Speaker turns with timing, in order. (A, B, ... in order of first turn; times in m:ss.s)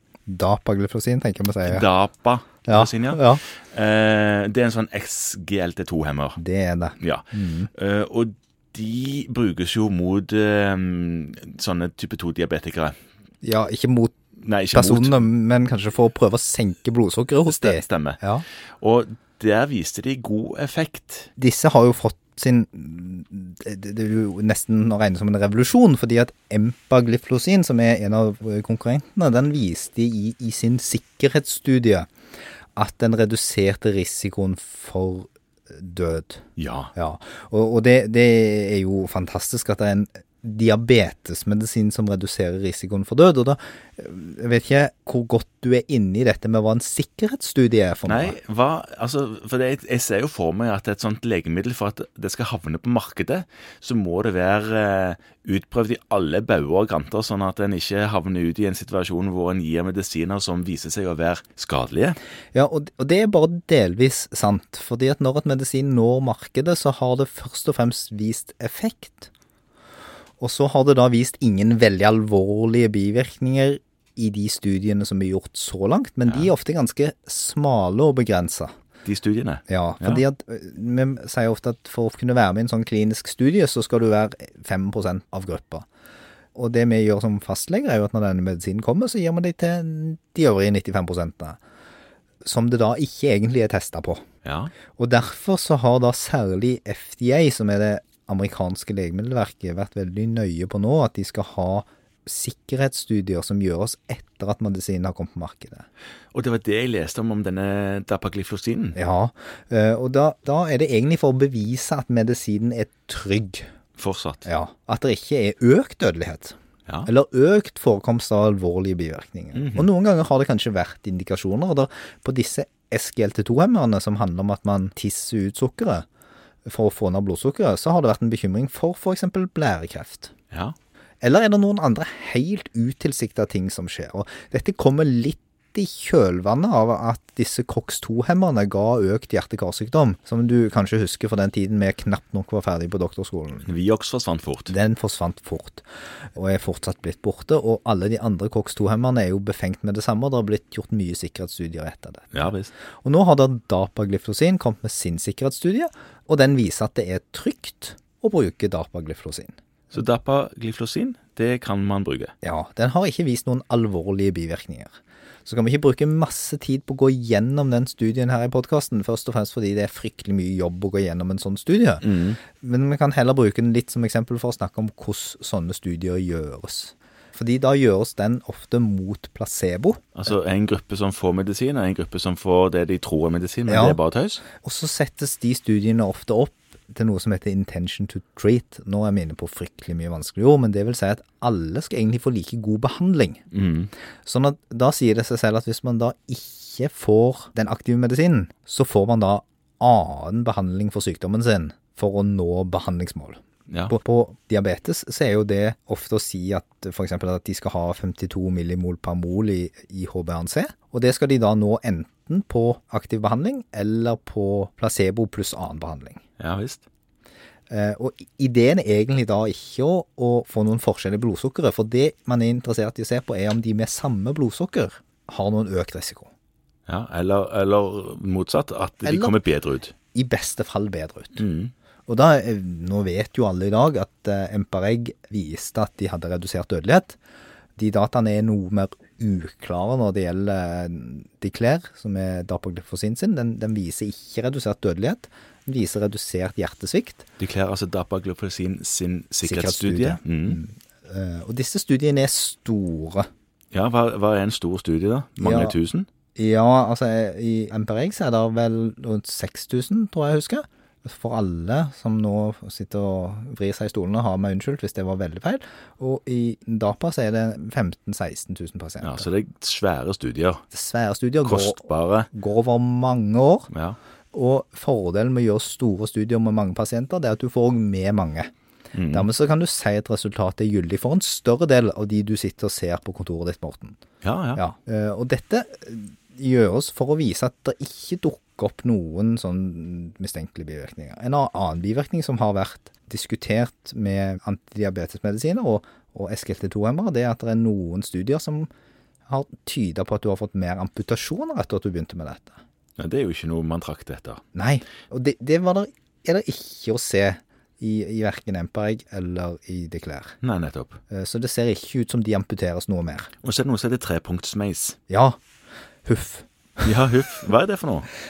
0:00.3-0:01.8 A
0:01.6-0:06.4 B
0:02.7-0:03.4 A
0:06.4-0:07.7 A
0:07.0-0:13.0 B
0:13.4-0:14.2 A
0:14.4-0:15.2 B
0:14.7-0:18.4 A
0:17.4-0:18.2 B
0:18.8-0:21.3 B
0:21.4-0:32.1 A
0:32.8-0:48.4 A
0:36.6-0:36.9 B
0:48.0-1:02.2 B
1:02.5-1:09.3 A
1:10.4-1:18.7 A
1:19.0-1:20.2 B
1:19.7-1:25.8 A
1:26.5-1:31.6 A
1:32.4-1:34.2 A
1:34.4-1:34.7 B
1:34.9-1:45.8 A
1:46.3-1:49.0 B
1:48.9-1:53.6 A
1:54.0-1:54.5 B
1:54.4-2:06.0 A
1:59.5-1:59.8 B
2:06.6-2:10.3 A
2:11.2-2:23.7 A
2:23.6-2:24.7 B
2:24.7-2:39.5 A
2:32.3-2:32.7 B
2:39.9-2:42.3 B
2:42.4-3:00.1 A
2:52.0-2:52.4 B
3:00.1-3:04.4 B
3:03.7-3:04.0 A
3:04.6-3:13.4 A
3:13.5-3:13.9 B
3:14.2-3:36.2 A
3:23.7-3:23.9 B
3:36.4-3:36.8 B
3:37.7-3:46.3 A
3:46.9-3:49.9 B
3:49.0-3:49.4 A
3:50.1-3:51.4 A
3:51.4-3:51.7 B
3:52.1-3:57.2 A
3:57.8-4:07.2 A
4:07.4-4:10.6 B
4:09.4-4:13.3 A
4:13.7-4:16.1 B
4:15.4-4:15.8 A
4:16.4-4:29.3 A
4:29.0-4:30.6 B
4:30.7-4:33.7 A
4:31.4-4:32.3 B
4:33.7-4:34.0 B
4:34.3-4:38.5 A
4:38.9-4:39.3 B
4:39.1-4:44.0 A
4:44.2-4:44.6 B
4:44.6-4:58.7 A
4:59.3-5:02.6 A
5:03.0-5:04.4 B
5:04.5-5:10.4 A
5:10.4-5:11.0 B
5:11.1-5:13.3 A
5:13.4-5:15.0 B
5:15.1-5:15.4 A
5:16.0-5:16.9 A
5:16.8-5:18.1 B